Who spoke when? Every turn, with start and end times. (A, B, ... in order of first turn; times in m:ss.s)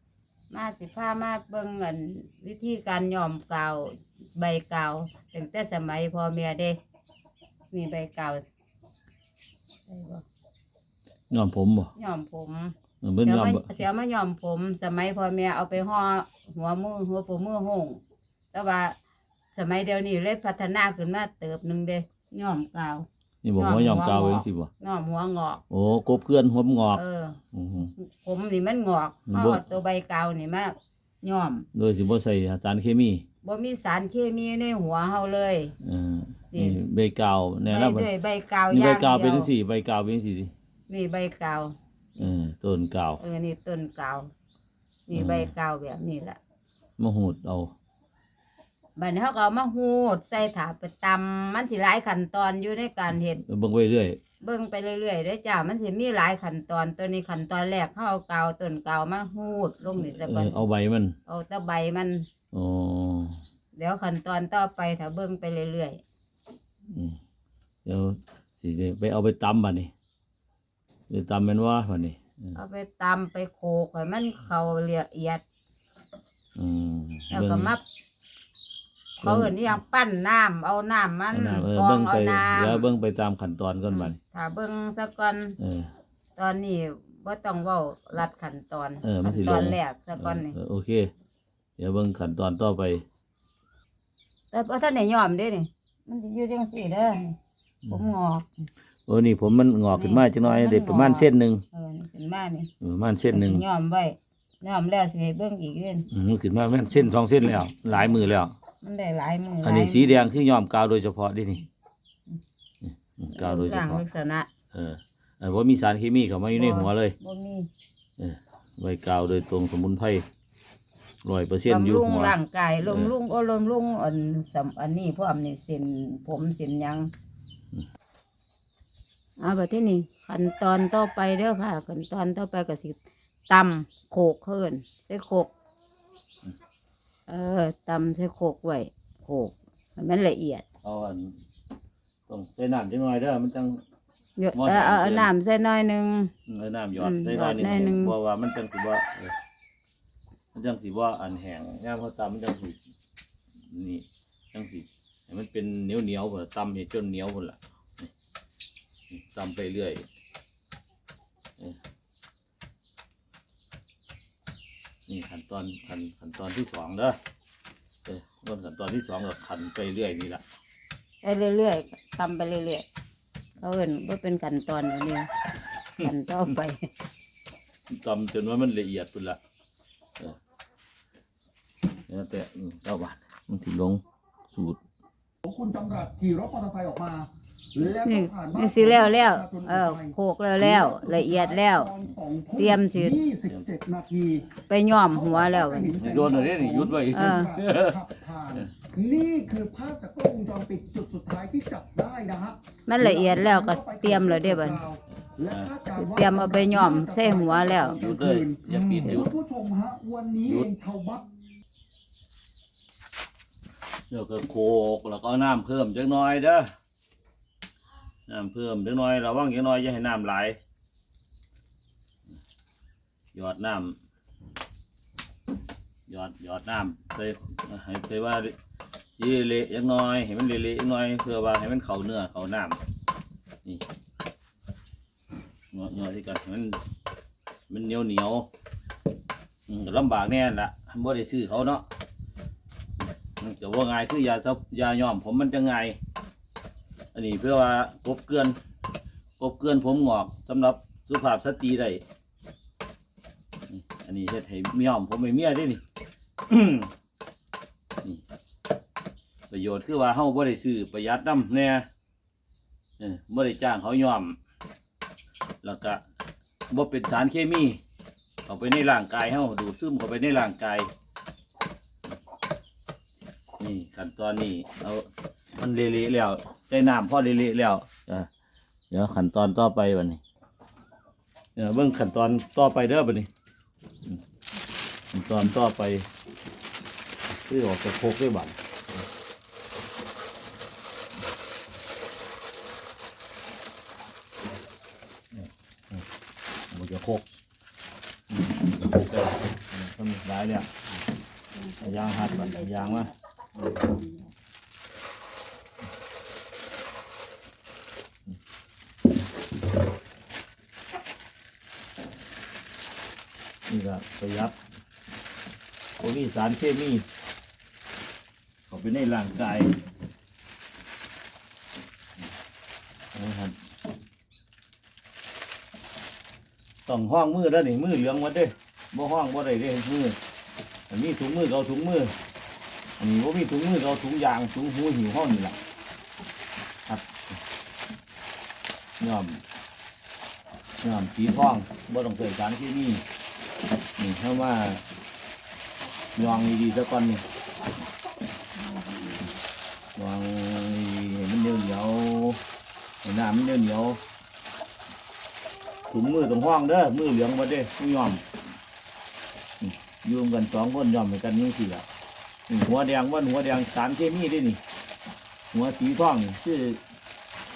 0:00.5-0:06.8 A
0:07.7-0:08.4 A
0:09.9-0:10.2 A
0:11.3-0:11.9 B
0:12.0-0:12.7 A
0:13.0-0:13.8 B
0:13.2-0:18.0 A
0:18.5-0:19.0 A
0:19.5-0:23.0 A
0:23.4-0:24.7 B
0:23.6-0:25.6 A
0:25.7-0:27.9 B
0:26.9-0:27.4 A
0:28.0-0:31.6 A
0:29.3-0:29.7 B
0:31.7-0:33.2 B
0:33.4-0:35.7 A
0:35.8-0:38.1 B
0:36.5-0:36.8 A
0:37.7-0:39.5 A
0:38.7-0:40.5 B
0:40.9-0:41.7 A
0:42.2-0:43.2 B
0:43.2-0:44.3 A
0:45.1-0:46.4 A
0:45.1-0:45.5 B
0:47.0-0:47.7 B
0:49.0-0:53.4 A
0:53.4-0:54.2 B
0:54.4-1:00.6 A
1:00.0-1:01.2 B
1:01.2-1:02.2 A
1:02.5-1:03.4 B
1:03.7-1:06.0 A
1:06.9-1:07.2 B
1:07.8-1:09.9 B
1:11.1-1:12.6 B
1:12.5-1:15.4 A
1:16.6-1:17.7 B
1:17.3-1:17.8 A
1:19.2-1:22.9 A
1:19.2-1:19.8 B
1:21.3-1:24.2 B
1:23.9-1:25.6 A
1:25.6-1:25.9 B
1:26.4-1:30.6 A
1:29.0-1:31.1 B
1:31.8-1:33.0 B
1:34.5-1:37.4 A
1:37.9-1:38.6 A
1:39.1-1:41.6 B
1:39.9-1:42.7 A
1:42.8-1:43.6 B
1:43.3-1:46.1 A
1:46.1-1:48.5 B
1:48.8-1:50.2 A
1:49.6-1:51.6 B
1:52.8-1:54.0 B
1:53.3-1:54.5 A
1:54.7-1:57.1 B
1:56.5-1:57.7 A
1:58.2-2:00.2 B
2:01.2-2:03.1 B
2:01.7-2:07.1 A
2:09.4-2:13.0 A
2:13.5-2:15.5 A
2:17.3-2:20.6 A
2:20.8-2:21.4 B
2:22.3-2:23.8 B
2:24.4-2:26.3 A
2:24.5-2:25.3 B
2:26.5-2:29.3 B
2:27.0-2:28.1 A
2:30.5-2:32.8 B
2:33.7-2:38.1 B
2:39.1-2:40.0 B
2:45.1-2:47.2 B
2:48.0-2:50.4 B
2:51.2-2:52.8 A
2:53.6-2:55.3 A
2:56.0-2:56.9 A
2:57.9-2:59.4 B
3:02.1-3:04.0 B
3:04.5-3:04.8 B
3:05.4-3:31.3 C
3:08.0-3:11.9 A
3:12.5-3:13.2 A
3:14.7-3:16.0 A
3:16.0-3:18.6 B
3:17.1-3:17.5 A
3:22.8-3:24.8 A
3:26.0-3:28.0 A
3:27.9-3:29.3 B
3:30.4-3:30.7 B
3:34.1-3:36.7 B
3:38.3-3:40.6 B
3:43.3-3:44.0 B
3:46.1-3:48.5 B
3:49.2-3:52.8 B
3:55.7-3:56.8 B
3:57.7-3:58.5 B
3:59.7-4:01.8 B
4:03.4-4:06.0 B
4:07.1-4:08.6 B
4:09.4-4:12.0 B
4:13.7-4:15.8 B
4:16.5-4:16.9 B
4:19.5-4:21.9 B
4:23.0-4:24.4 B
4:25.6-4:26.0 B
4:26.7-4:27.8 B
4:28.4-4:30.9 B
4:33.6-4:35.0 B
4:35.6-4:38.3 B
4:38.9-4:40.2 B
4:41.6-4:43.3 B
4:45.1-4:46.0 B
4:47.4-4:48.6 B
4:55.3-4:56.0 B
4:56.7-4:57.2 B
4:58.3-5:00.7 B
5:01.5-5:04.3 A
5:01.8-5:03.1 B
5:13.7-5:14.6 B
5:16.0-5:17.0 B
5:18.7-5:19.8 B
5:23.1-5:23.5 B
5:26.8-5:30.2 B
5:30.9-5:32.1 B
5:33.0-5:35.6 B
5:39.0-5:39.4 B
5:40.8-5:43.0 B
5:44.0-5:44.8 B
5:46.1-5:47.2 B
5:48.6-5:49.4 A
5:50.0-5:52.4 B
5:53.0-5:54.0 B
5:55.9-5:58.2 B
5:59.6-6:01.8 B
6:02.5-6:04.6 B
6:05.5-6:06.8 B